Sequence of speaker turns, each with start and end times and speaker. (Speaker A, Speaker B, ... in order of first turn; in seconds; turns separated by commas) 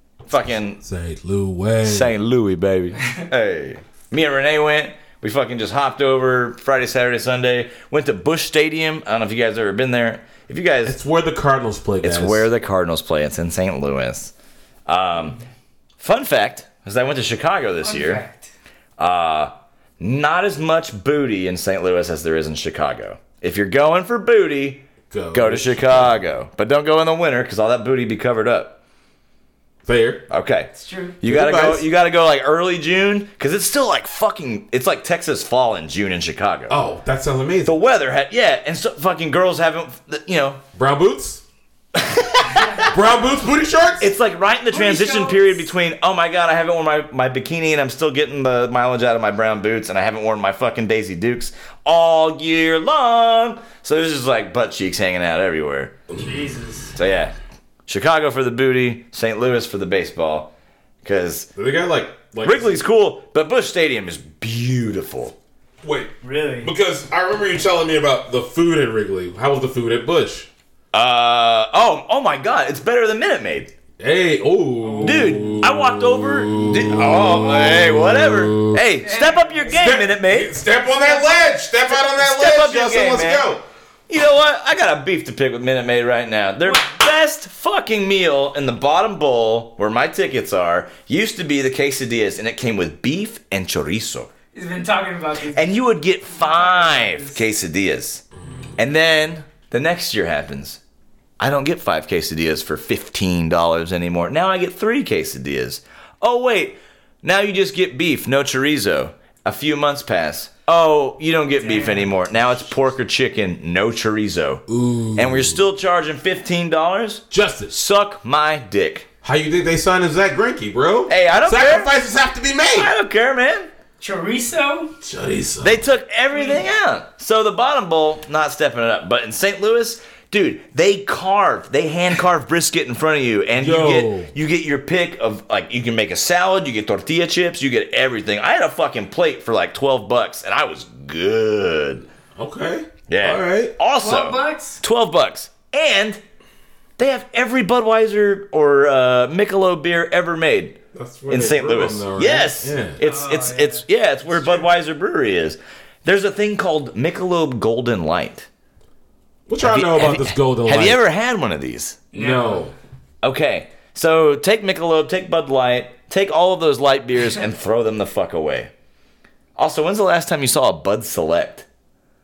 Speaker A: 0.3-0.8, Speaker B: 0.8-2.1, Speaker A: 1.9-11.0, Speaker B: 10.8-12.5, Speaker A: 12.0-14.3, Speaker A: 14.9-15.4, Speaker A: 16.0-18.2, Speaker C: 17.8-18.5, Speaker A: 19.0-28.8, Speaker B: 25.1-26.1, Speaker B: 29.9-30.2, Speaker A: 30.3-30.7, Speaker C: 30.7-31.2, Speaker A: 31.2-36.8, Speaker B: 31.2-31.9, Speaker B: 36.7-37.8, Speaker A: 37.7-40.6, Speaker B: 40.8-41.4, Speaker A: 42.0-42.9, Speaker C: 42.5-43.2, Speaker B: 42.9-44.1, Speaker A: 44.0-56.0, Speaker C: 44.7-45.7, Speaker C: 56.2-56.9, Speaker A: 57.0-57.4, Speaker A: 57.9-60.5, Speaker A: 61.0-61.5, Speaker B: 61.6-62.8, Speaker A: 62.4-65.3, Speaker B: 65.8-66.1, Speaker C: 66.2-66.7, Speaker B: 66.6-70.5, Speaker A: 70.9-73.7, Speaker B: 74.0-78.8, Speaker C: 74.8-75.6, Speaker A: 75.0-80.5, Speaker C: 79.0-79.9, Speaker B: 79.7-83.6, Speaker C: 81.0-81.5, Speaker A: 81.9-83.5, Speaker A: 84.1-94.3, Speaker C: 86.6-87.0, Speaker C: 94.5-97.4, Speaker A: 95.5-98.2, Speaker A: 98.8-100.8, Speaker A: 101.4-114.6, Speaker C: 111.6-112.1, Speaker B: 114.7-115.6, Speaker A: 115.2-119.1, Speaker B: 117.3-117.7, Speaker B: 119.2-122.9, Speaker A: 121.1-121.9, Speaker A: 122.7-123.7, Speaker C: 124.0-124.9, Speaker B: 125.0-125.8, Speaker A: 125.6-142.1, Speaker C: 126.3-126.6, Speaker B: 133.6-134.3, Speaker B: 142.4-143.8, Speaker A: 143.1-146.2, Speaker C: 144.0-144.8, Speaker A: 147.0-150.8, Speaker B: 150.9-153.0, Speaker A: 151.3-158.5, Speaker C: 153.0-153.8, Speaker B: 159.5-161.0, Speaker A: 159.6-162.0, Speaker C: 162.1-162.6, Speaker B: 162.1-162.7, Speaker A: 163.2-168.7, Speaker A: 169.6-171.7